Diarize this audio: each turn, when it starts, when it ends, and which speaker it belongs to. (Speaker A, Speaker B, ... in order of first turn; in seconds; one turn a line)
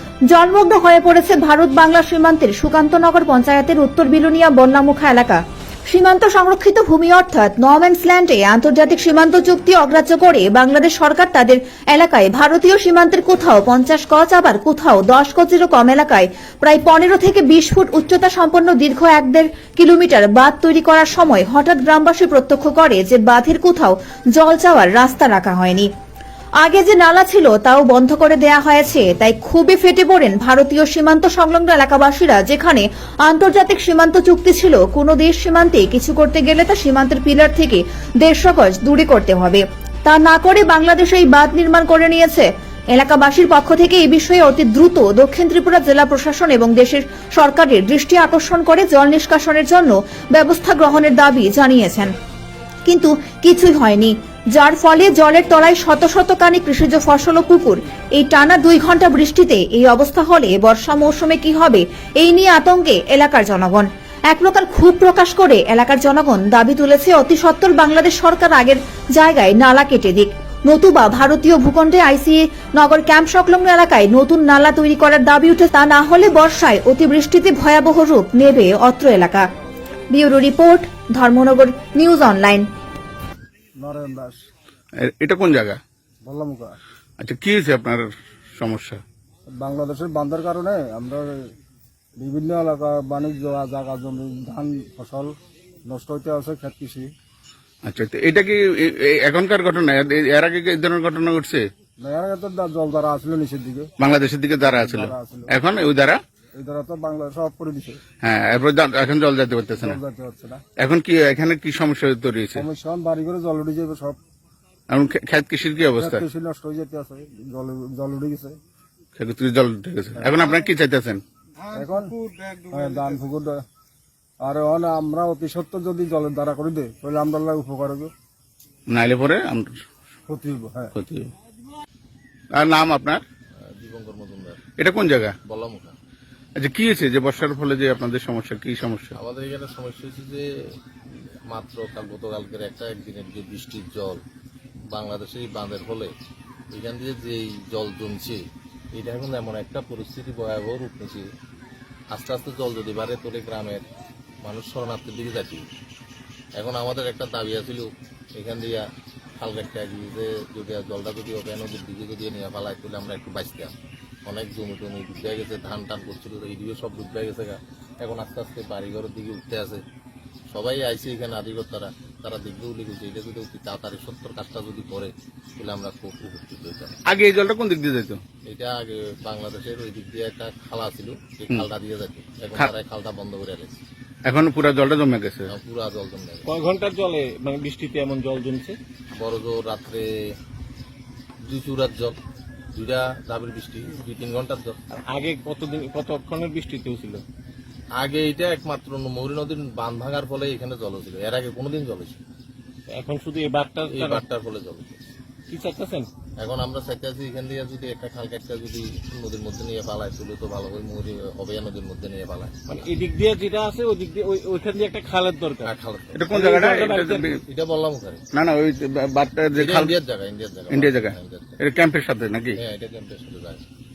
Speaker A: 0.3-25.9
Speaker A: 26.6-52.1
Speaker A: 52.9-79.4
Speaker A: 80.1-82.6
Speaker B: 83.8-84.4
Speaker C: 85.0-85.8
Speaker B: 86.2-86.8
Speaker C: 87.2-89.0
Speaker B: 89.5-91.5
Speaker B: 92.2-95.3
Speaker B: 95.9-97.1
Speaker C: 97.8-101.7
Speaker B: 102.0-103.9
Speaker C: 104.0-106.2
Speaker B: 104.6-105.5
Speaker B: 106.5-108.0
Speaker C: 108.2-110.0
Speaker B: 109.8-110.6
Speaker C: 110.8-112.6
Speaker B: 112.5-114.2
Speaker C: 114.9-116.2
Speaker B: 116.0-118.6
Speaker C: 119.2-121.2
Speaker B: 121.7-122.1
Speaker B: 122.7-123.6
Speaker B: 124.4-128.1
Speaker C: 128.9-129.8
Speaker B: 130.3-130.9
Speaker C: 130.9-131.3
Speaker C: 132.6-133.2
Speaker D: 133.6-134.6
Speaker C: 134.8-135.3
Speaker D: 135.5-135.9
Speaker C: 136.6-139.2
Speaker D: 139.2-140.5
Speaker D: 141.5-144.2
Speaker D: 144.9-146.1
Speaker D: 146.7-148.4
Speaker D: 148.9-151.2
Speaker D: 152.1-153.8
Speaker D: 154.4-155.7
Speaker D: 156.6-158.8
Speaker D: 159.4-163.7
Speaker D: 164.3-169.8
Speaker D: 170.5-177.0
Speaker C: 177.1-178.2
Speaker D: 178.4-183.8
Speaker C: 184.2-185.5
Speaker D: 185.5-186.5
Speaker E: 186.4-188.8
Speaker D: 189.2-190.1
Speaker D: 191.5-192.2
Speaker D: 192.7-194.8
Speaker E: 194.9-197.2
Speaker D: 198.0-202.2
Speaker E: 202.9-204.2
Speaker D: 203.9-205.0
Speaker E: 205.5-206.1
Speaker D: 206.4-212.8
Speaker E: 212.7-215.7
Speaker D: 215.7-216.2
Speaker C: 216.1-217.4
Speaker E: 216.3-217.3
Speaker D: 217.5-218.2
Speaker C: 218.3-219.9
Speaker D: 219.5-221.6
Speaker C: 220.7-222.6
Speaker D: 222.6-223.6